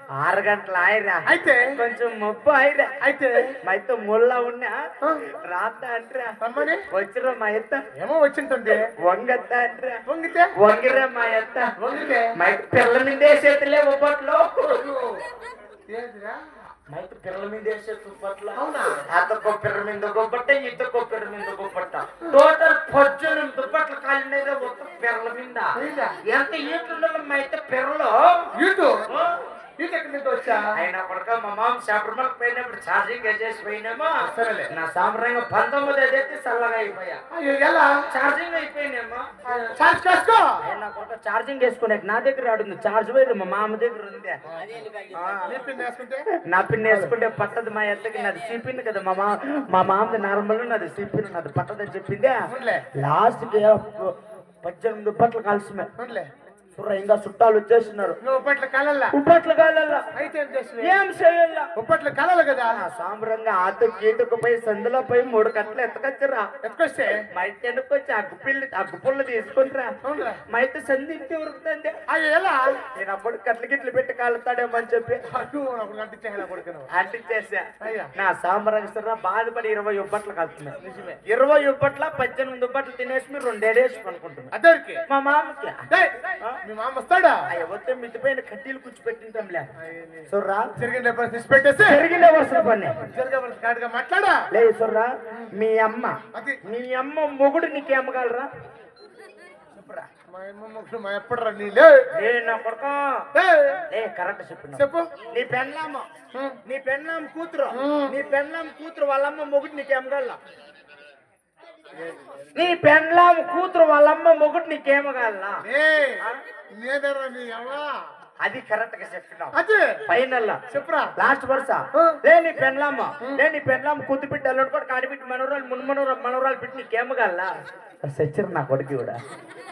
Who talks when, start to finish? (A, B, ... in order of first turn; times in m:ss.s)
0:00.2-0:02.9 A
0:01.3-0:01.7 B
0:03.0-0:03.5 B
0:03.6-0:04.8 A
0:05.5-0:06.3 A
0:06.4-0:06.8 B
0:06.9-0:07.8 A
0:08.0-0:08.9 B
0:09.0-0:10.0 A
0:10.1-0:10.5 B
0:10.6-0:11.6 A
0:11.8-0:12.3 B
0:12.3-0:14.8 A
0:14.6-0:15.2 B
0:15.9-0:16.4 B
0:16.9-0:28.5 A
0:18.6-0:19.0 B
0:25.8-0:26.2 B
0:28.5-0:29.1 B
0:29.1-0:29.3 A
0:29.8-0:30.6 B
0:30.8-0:37.2 A
0:34.2-0:34.7 B
0:37.3-0:38.0 B
0:38.1-0:39.3 A
0:39.4-0:40.6 B
0:40.6-0:44.4 A
0:44.5-0:44.8 B
0:45.0-0:45.6 A
0:45.4-0:46.2 B
0:46.4-0:52.4 A
0:46.8-0:47.1 B
0:52.5-0:52.9 B
0:52.9-0:55.9 A
0:56.0-0:56.3 B
0:56.8-0:58.2 A
0:58.2-0:59.1 B
0:59.1-1:00.0 A
1:00.1-1:01.0 B
1:00.8-1:01.7 A
1:01.8-1:02.8 B
1:02.7-1:06.5 A
1:06.6-1:07.2 B
1:07.3-1:09.9 A
1:10.0-1:10.4 B
1:10.5-1:11.9 A
1:12.1-1:12.8 B
1:12.9-1:15.2 A
1:15.3-1:16.9 B
1:16.9-1:20.8 A
1:17.8-1:18.1 B
1:20.8-1:21.2 B
1:21.3-1:24.5 A
1:24.5-1:25.0 B
1:25.1-1:25.8 A
1:25.9-1:27.4 B
1:27.5-1:29.7 A
1:29.8-1:32.1 B
1:30.3-1:30.7 A
1:31.8-1:33.0 A
1:33.1-1:34.4 B
1:34.5-1:38.5 A
1:36.3-1:36.6 B
1:39.7-1:40.1 A
1:40.3-1:42.0 B
1:42.1-1:43.2 A
1:43.3-1:43.8 B
1:43.9-1:46.1 A
1:44.8-1:45.1 B
1:46.3-1:46.6 B
1:46.6-1:50.4 A
1:47.7-1:48.1 B
1:51.9-1:52.4 B
1:52.6-1:55.6 A
1:55.6-1:56.2 B
1:56.7-1:58.0 B
1:58.4-2:00.6 A
1:59.5-2:00.0 B
2:00.7-2:01.1 B
2:01.2-2:07.5 A
2:08.0-2:09.2 A